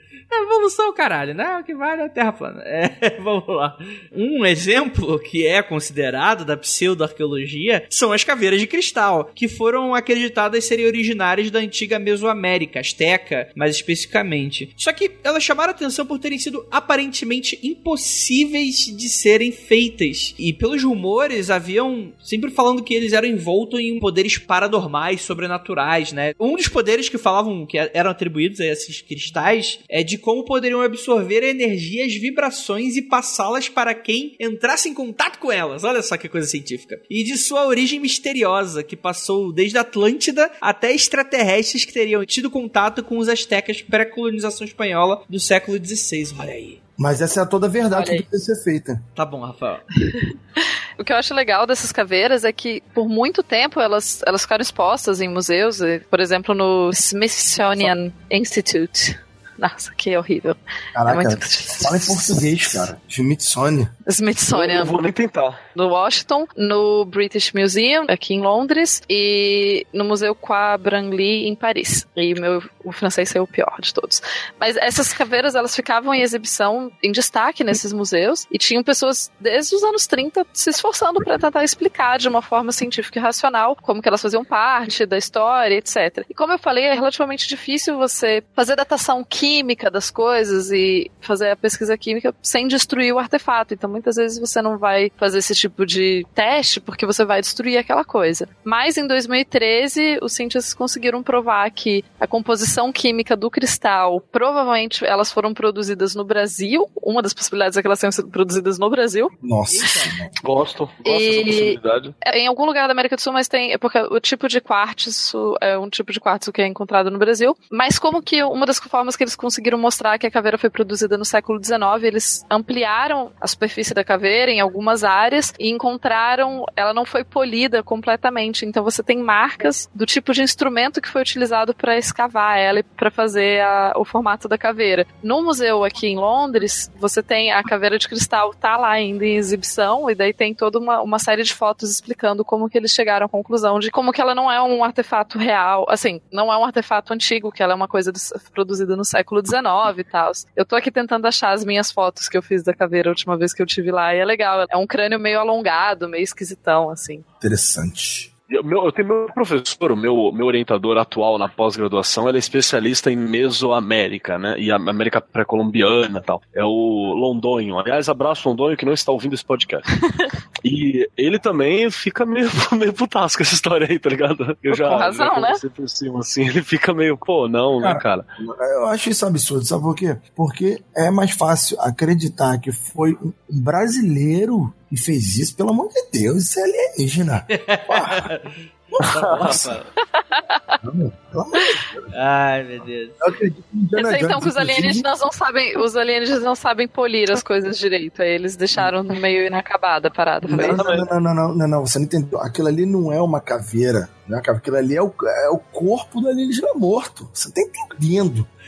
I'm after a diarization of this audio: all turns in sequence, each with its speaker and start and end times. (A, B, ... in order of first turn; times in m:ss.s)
0:00.3-0:46.8 A
0:47.0-0:49.0 B
0:47.9-0:48.2 C
0:49.2-0:49.8 A
0:51.0-1:02.4 C
1:00.9-1:03.9 B
1:04.0-1:05.0 C
1:04.5-1:05.6 D
1:05.7-1:49.3 C
1:49.4-1:50.3 B
1:49.7-1:50.2 A
1:50.4-1:52.1 D
1:51.0-2:37.2 C
2:37.4-2:38.3 B
2:38.5-2:49.9 D
2:50.6-2:58.2 D
2:54.7-2:55.6 C
2:57.8-3:08.3 B
3:07.5-3:09.9 A
3:08.9-3:09.8 B
3:10.1-3:10.8 C
3:10.8-3:12.1 B
3:12.1-3:13.2 A
3:13.2-3:15.0 B
3:14.0-3:20.8 C
3:20.4-3:28.5 B
3:20.6-3:21.0 D